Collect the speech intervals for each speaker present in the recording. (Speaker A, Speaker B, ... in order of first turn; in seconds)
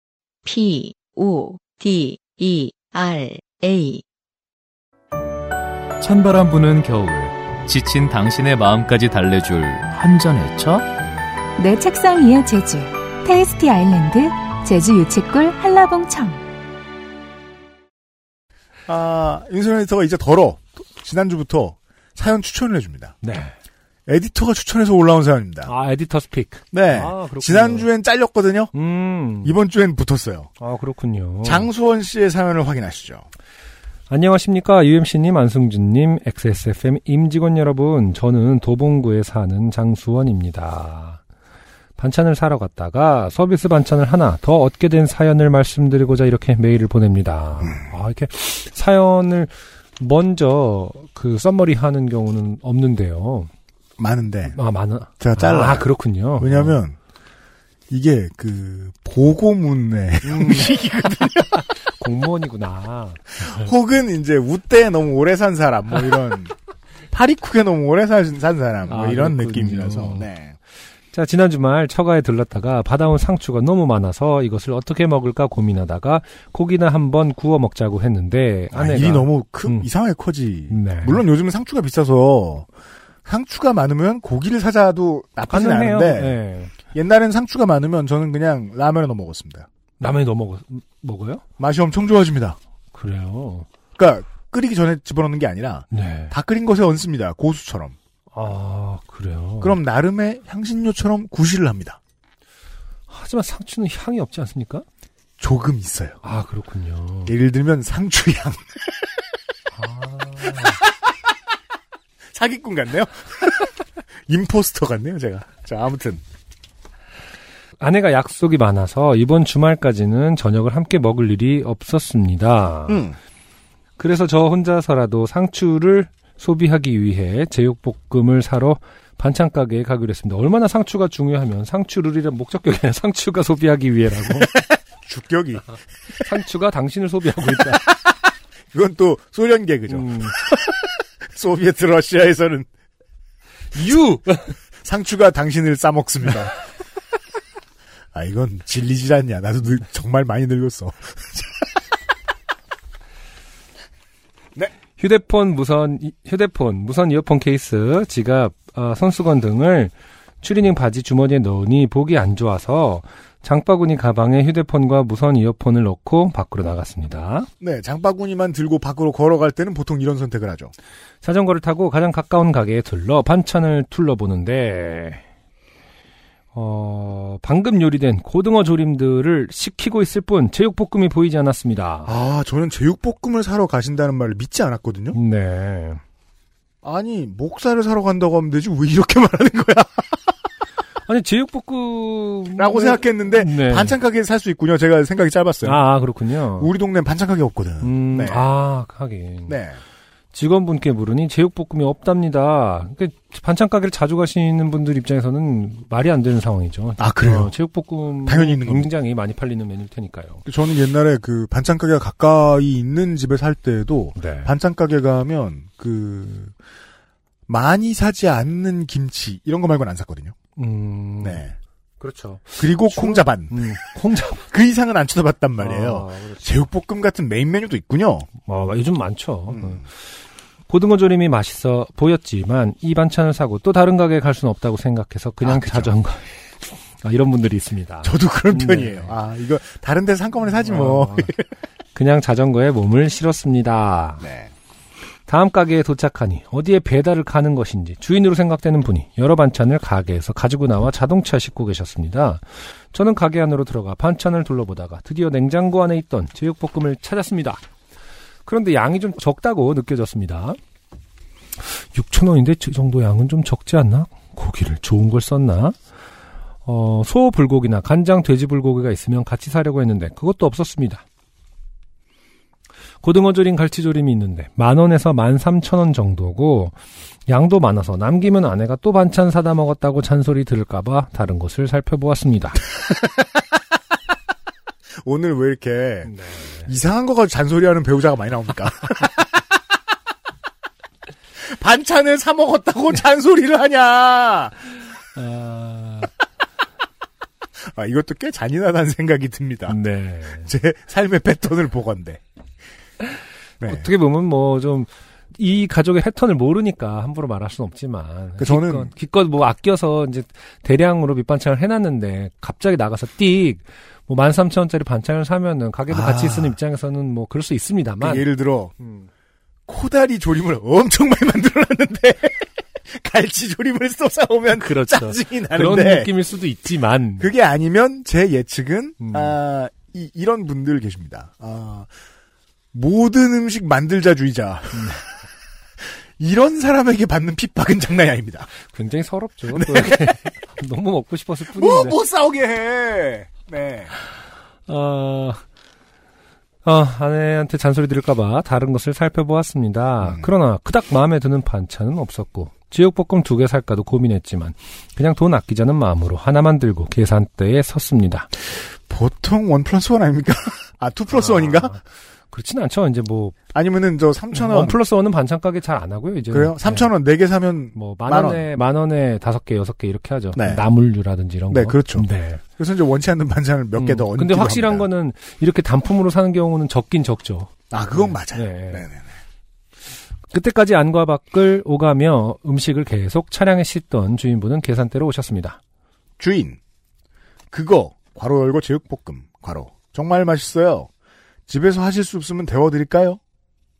Speaker A: 0.4-4.0
Speaker B: 6.0-10.8
Speaker C: 11.6-16.4
Speaker D: 18.9-23.1, 24.1-25.7, 26.7-28.7, 29.4-30.5, 31.4-33.2, 54.0-54.6, 55.2-57.0, 57.9-61.7, 63.4-66.5, 67.1-70.5, 78.7-82.7, 83.2-89.7, 91.6-92.6, 94.0-98.0, 99.6-102.0, 105.4-106.2, 107.2-108.8, 112.3-116.2, 122.9-123.2, 135.0-135.6, 137.5-138.0, 138.7-142.7, 144.8-146.5, 148.1-151.6, 167.6-170.7, 182.0-185.2, 186.8-190.3, 192.5-195.8, 196.6-198.5, 199.5-199.8, 207.0-207.5, 208.2-208.9, 210.4-216.5, 217.5-220.3, 221.2-221.5, 222.6-223.7, 224.4-228.3, 229.5-229.8, 235.4-235.9, 238.0-241.5, 244.2-244.5, 285.0-286.1, 286.6-289.3, 291.4-294.7, 297.6-299.8, 300.4-302.2, 303.6-303.9, 308.4-308.9, 315.9-316.6, 318.0-318.7, 319.7-326.1, 327.2-331.9, 332.7-335.1, 336.2-338.5, 339.5-340.3, 341.5-343.9, 350.0-350.3, 358.6-361.8, 363.5-364.8, 366.3-368.5, 370.3-370.7, 371.5-374.9, 377.7-379.0, 386.2-386.6, 387.5-390.9, 391.5-393.2
Speaker E: 23.2-23.6, 25.6-27.9, 28.7-29.6, 30.6-31.7, 34.1-41.2, 42.0-53.5, 54.5-56.8, 60.2-60.8, 61.6-63.7, 68.9-70.3, 71.1-79.9, 80.7-81.2, 85.5-86.7, 90.0-91.4, 92.9-93.7, 95.9-96.3, 98.3-99.8, 103.1-104.8, 106.2-107.3, 109.7-110.8, 117.8-123.0, 124.0-134.6, 136.2-137.8, 139.9-140.3, 143.7-144.5, 155.0-167.5, 171.2-175.2, 176.5-182.1, 185.1-186.0, 191.1-194.0, 195.6-196.7, 197.8-199.6, 200.3-210.4, 214.2-214.5, 220.6-221.4, 222.0-224.4, 225.6-226.5, 228.4-229.9, 230.7-236.2, 237.0-239.1, 240.5-241.3, 241.9-244.2, 245.3-257.6, 258.4-260.6, 261.8-265.8, 266.6-271.0, 273.0-282.6, 286.1-286.7, 295.0-296.1, 299.7-300.5, 303.6-318.3, 318.8-319.1, 324.5-327.3, 329.0-329.4, 334.7-335.0, 338.6-342.0, 344.7-345.4, 346.6-358.3, 361.1-363.4, 364.3-366.9, 367.7-372.4, 373.8-378.9, 380.3-385.6